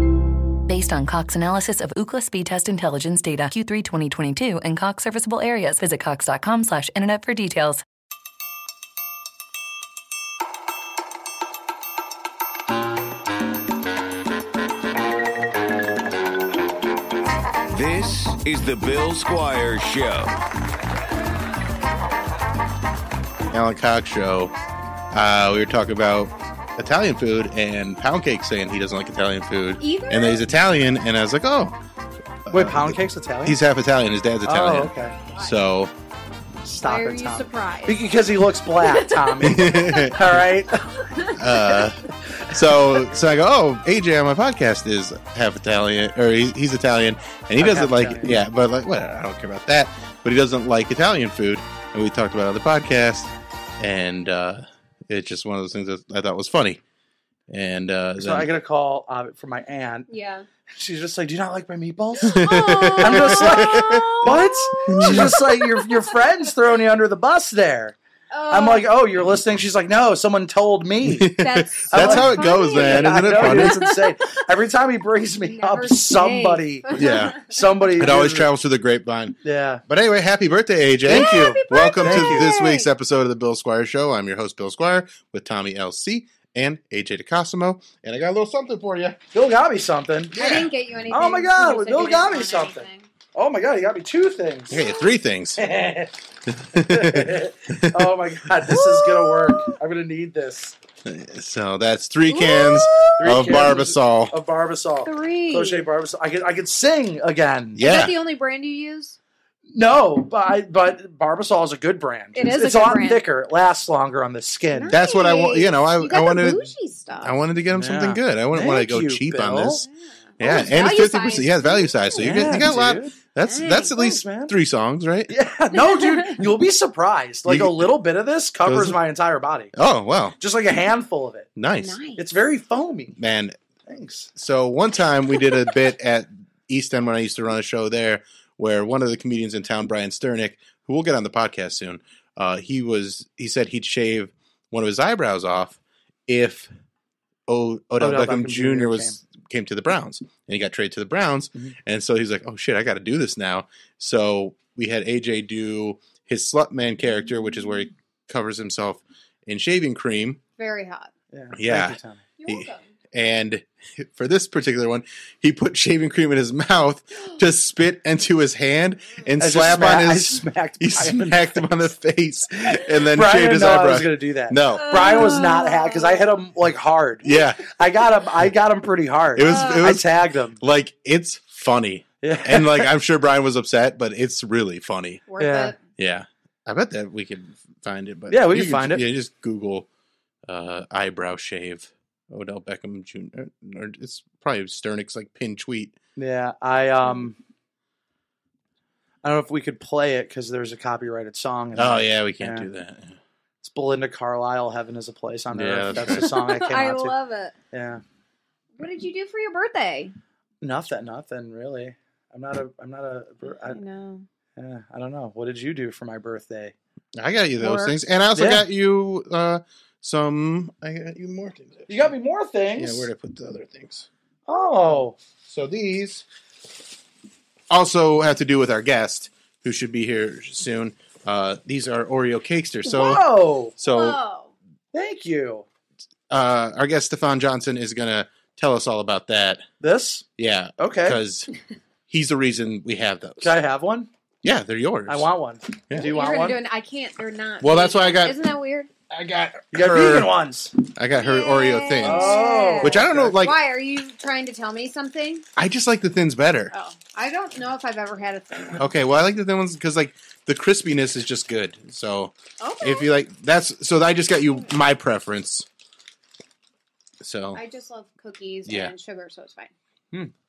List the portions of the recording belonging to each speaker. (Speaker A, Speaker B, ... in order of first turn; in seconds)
Speaker A: 0.7-7.8
Speaker B: 17.7-20.3
Speaker C: 23.5-24.5, 25.1-31.8, 32.4-35.9, 39.4-40.4, 41.3-56.8, 57.5-58.5, 62.2-65.4, 71.0-73.9, 76.9-77.4, 78.0-89.2, 94.7-95.6, 96.5-98.2, 101.0-104.3, 107.7-108.2, 114.9-119.8, 120.4-125.3, 127.4-127.9, 128.6-129.0, 129.7-130.4, 131.6-132.0, 133.2-133.6, 134.3-146.7, 147.5-160.4, 161.5-175.3, 177.2-177.7, 179.3-180.1, 180.6-185.2, 186.0-189.9, 190.5-195.9, 201.7-203.2, 205.5-206.3, 217.2-222.1, 222.7-224.1, 225.4-226.2, 227.7-233.3, 233.8-234.2, 236.3-239.6, 240.4-241.5, 242.1-243.6, 244.4-245.3, 245.9-246.1, 247.6-248.4, 249.1-250.3, 250.9-253.6, 255.6-256.7, 258.8-265.7, 267.2-267.6, 268.6-268.9
Speaker D: 29.8-30.4, 36.8-38.1, 38.8-40.1, 41.0-41.9, 60.1-60.5, 62.3-66.0, 68.3-68.9, 71.4-74.0, 75.4-77.8, 81.1-82.9, 90.4-93.0, 94.7-95.0, 98.7-99.8, 102.3-103.2, 105.0-105.8, 107.8-109.2, 112.3-113.2, 114.7-117.4, 119.8-122.7, 123.4-123.9, 125.7-126.5, 131.8-132.2, 160.6-161.1, 162.4-162.8, 174.8-176.3, 179.4-179.9, 185.3-185.8, 197.0-197.3, 205.9-207.5, 208.8-210.1, 213.5-214.2, 217.6-217.9, 233.8-234.5, 246.0-248.9, 251.1-255.4, 256.7-258.9, 262.6-263.1, 267.5-269.7
Speaker E: 32.5-33.6, 34.4-35.2, 36.6-41.0, 47.6-48.4, 58.2-60.1, 60.7-62.5, 63.0-68.0, 68.5-71.4, 71.9-78.5, 79.4-79.8, 81.1-81.5, 82.0-82.5, 89.3-94.8, 95.6-96.1, 96.7-100.7, 103.2-107.8, 109.7-115.0, 117.7-119.8, 122.2-123.1, 123.9-124.5, 125.3-129.7, 130.4-131.5, 132.2-133.2, 133.9-134.3, 148.0-149.2, 161.3-162.2, 169.4-171.6, 173.1-180.6, 182.2-182.9, 185.4-185.7, 188.3-189.0, 196.2-197.4, 199.2-202.7, 203.6-207.2, 207.7-208.0, 210.6-213.8, 214.6-216.7, 218.3-218.6, 221.9-223.1, 224.5-225.1, 232.9-233.7, 234.9-235.6, 239.8-240.2, 240.8-241.2, 243.4-244.1, 245.1-246.6, 249.7-250.7, 252.0-253.4